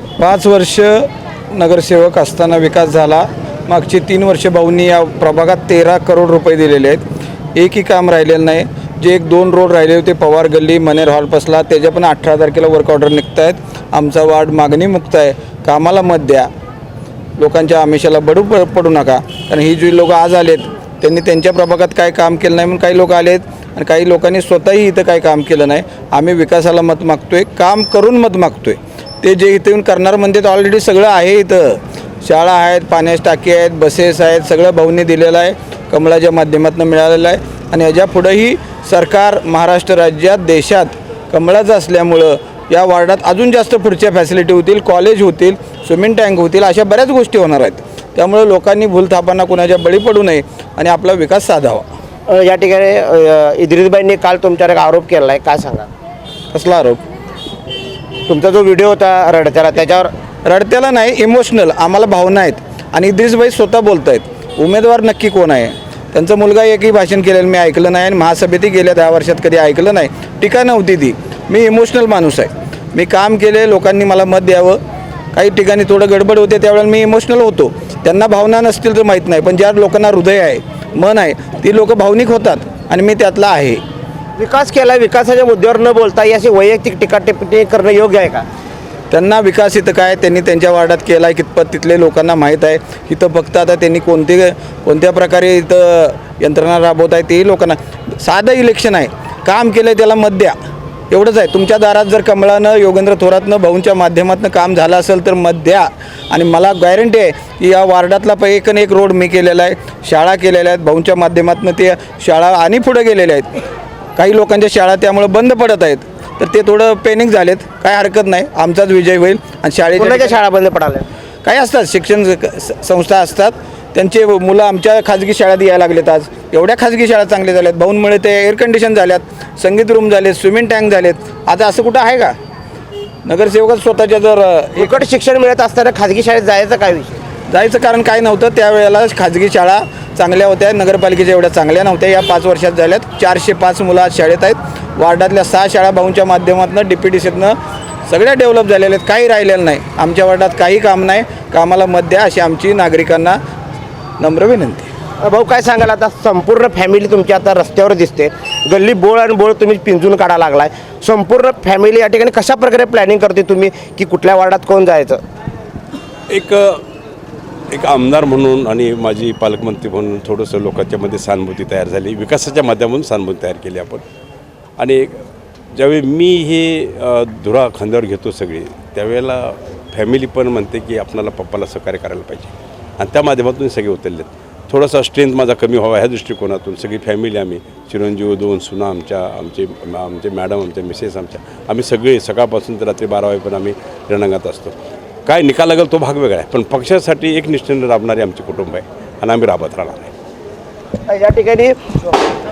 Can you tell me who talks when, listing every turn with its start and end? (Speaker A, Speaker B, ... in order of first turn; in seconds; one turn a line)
Speaker A: 0.2-7.0
Speaker A: 7.5-16.5
Speaker A: 17.4-51.9
Speaker B: 52.3-55.9
Speaker A: 56.5-57.0
Speaker B: 58.3-60.1
Speaker A: 60.4-74.8
Speaker A: 75.3-83.8
Speaker B: 84.4-88.5
Speaker A: 89.1-100.5
Speaker A: 101.1-113.6
Speaker A: 114.2-120.4
Speaker B: 120.0-121.0
Speaker A: 121.4-132.3
Speaker A: 133.2-135.0
Speaker B: 134.8-137.2
Speaker A: 137.5-147.6
Speaker A: 148.1-153.4
Speaker A: 154.2-154.9
Speaker B: 155.2-165.2
Speaker C: 166.3-166.8
Speaker C: 167.7-174.0
Speaker C: 174.8-175.2
Speaker C: 175.7-194.7
Speaker C: 195.2-200.1
Speaker B: 201.1-201.8